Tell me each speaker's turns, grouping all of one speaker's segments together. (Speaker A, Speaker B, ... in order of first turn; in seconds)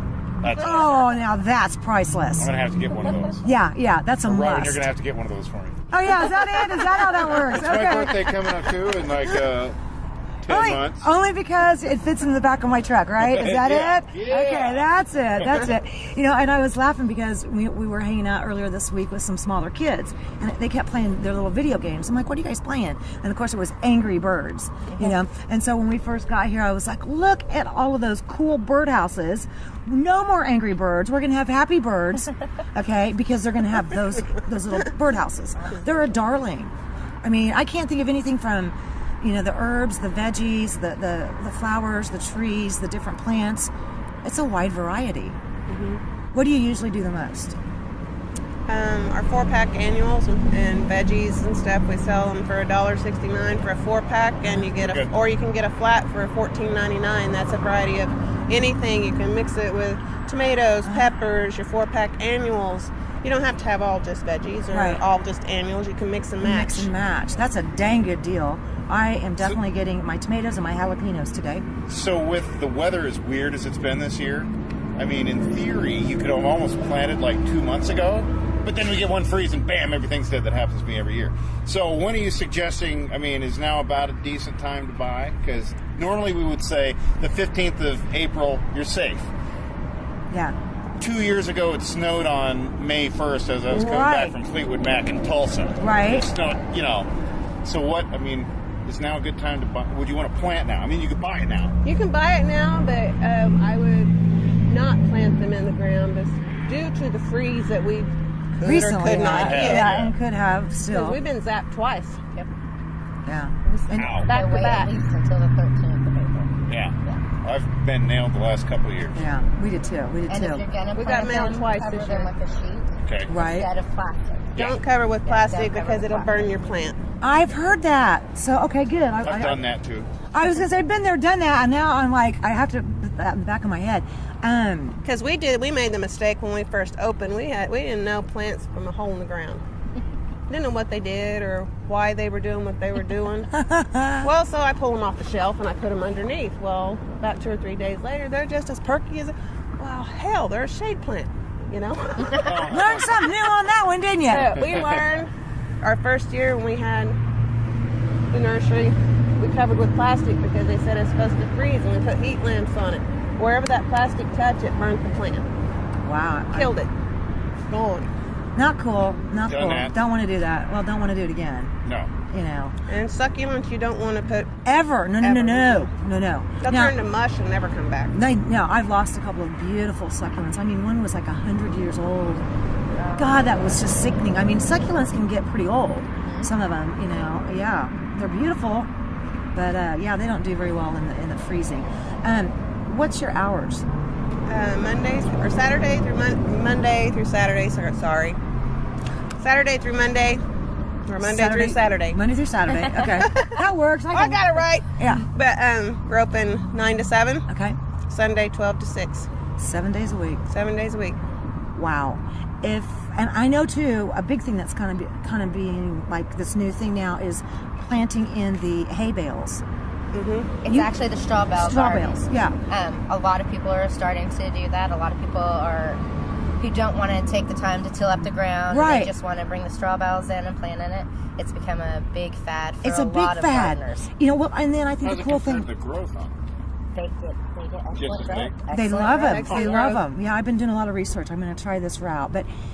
Speaker A: 0.4-1.0, 2.4-3.5, 4.2-6.3, 6.9-9.8, 10.4-11.1, 13.2-15.6, 54.8-55.1, 71.9-89.3, 91.0-97.1, 97.6-101.7, 109.2-110.1, 113.9-114.3, 116.7-119.2, 123.0-123.3, 129.2-130.1, 152.4-153.0, 154.6-154.9, 169.4-170.0, 171.8-172.1, 235.0-236.3, 237.9-238.6
Speaker B: 0.6-2.5, 3.4-4.8, 5.9-8.6, 10.5-36.7, 37.2-43.7, 44.2-45.4, 46.3-47.6, 64.7-65.0, 66.4-71.7, 90.3-90.5, 93.7-94.3, 95.8-96.3, 108.6-111.2, 113.3-114.2, 119.2-120.6, 123.3-123.7, 127.2-129.6, 130.3-135.0, 143.5-144.3, 152.7-154.6, 166.0-166.7, 168.6-171.8, 172.3-172.8, 174.7-177.0, 178.1-182.5, 183.2-188.9, 189.5-193.8, 201.2-205.3, 207.5-207.8, 209.6-210.4, 211.8-219.6, 221.5-222.6, 228.7-229.1, 232.8-235.7, 238.7-242.5
Speaker C: 24.9-25.1, 113.6-116.5, 120.3-124.6, 125.3-126.7, 182.9-183.4, 186.2-186.5, 220.6-226.0, 226.6-234.1, 236.9-239.8
Speaker D: 45.7-46.0, 48.7-66.9, 101.8-104.1, 104.7-110.0, 110.9-112.2, 114.2-114.9, 121.0-122.3, 124.6-127.0, 135.1-139.6, 140.5-143.5, 144.2-152.6, 154.2-157.2, 158.3-165.5, 166.5-166.9, 167.7-168.1, 172.9-174.5, 175.2-175.9, 176.6-178.1, 194.5-198.4, 199.4-200.4, 201.1-202.2, 203.1-203.6, 204.1-207.5, 208.1-209.3, 210.5-211.2, 220.1-220.5, 239.2-240.0